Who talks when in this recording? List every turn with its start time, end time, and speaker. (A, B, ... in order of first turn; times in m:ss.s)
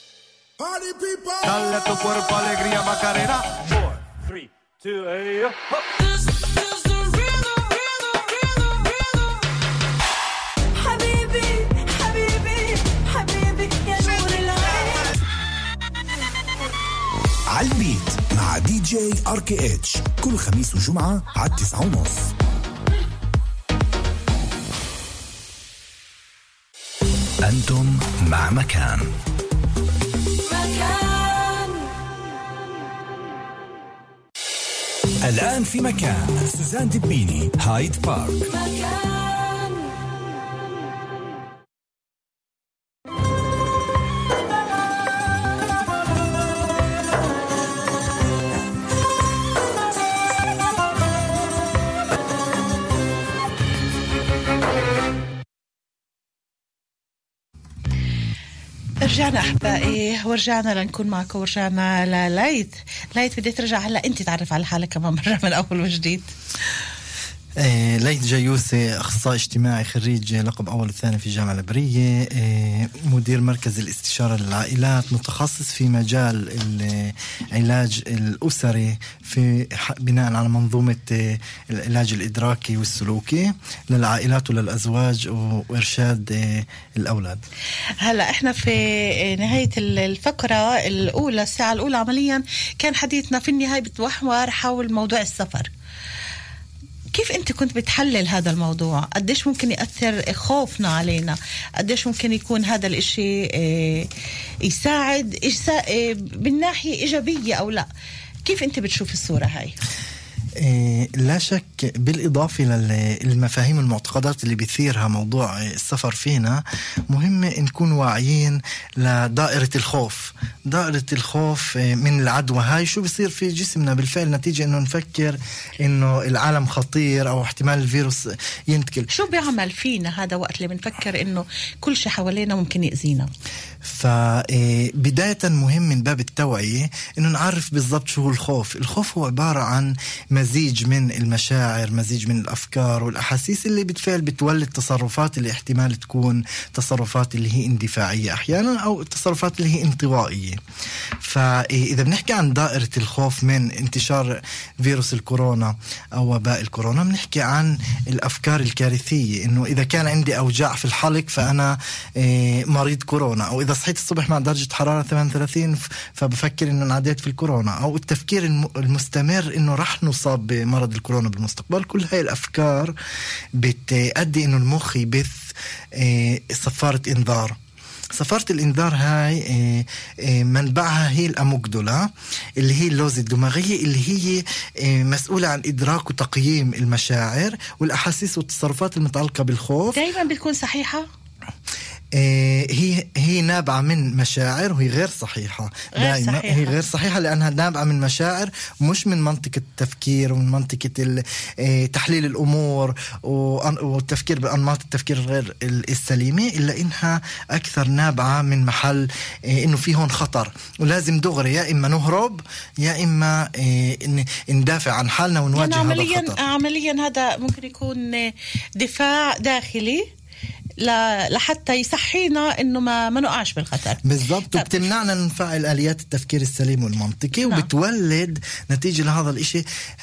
0:00.7-0:01.2 A
0:01.4-0:04.0 B
0:05.0-0:05.5 B
0:10.8-0:15.0 C
0:17.5-0:22.3 A
0:27.4-0:29.1 A
0:30.4-0:31.9 D
0:35.2-0:38.5 A
0:38.5-0:39.9 D
0:59.0-1:06.3 C
1:07.6-1:27.4 E
1:28.0-1:35.7 C
1:37.1-1:44.1 C
1:44.7-1:47.9 C
1:48.5-1:49.8 C
1:50.6-2:09.1 E
2:09.1-2:13.3 C
2:13.8-2:30.6 E
2:31.2-2:53.0 E
2:53.6-2:55.4 E
2:55.9-2:57.6 E
2:58.1-3:10.0 E
3:09.9-3:11.1 C
3:12.2-3:36.4 E
3:16.0-3:16.8 C
3:35.6-3:40.1 C
3:40.8-3:44.8 C
3:44.0-3:49.6 E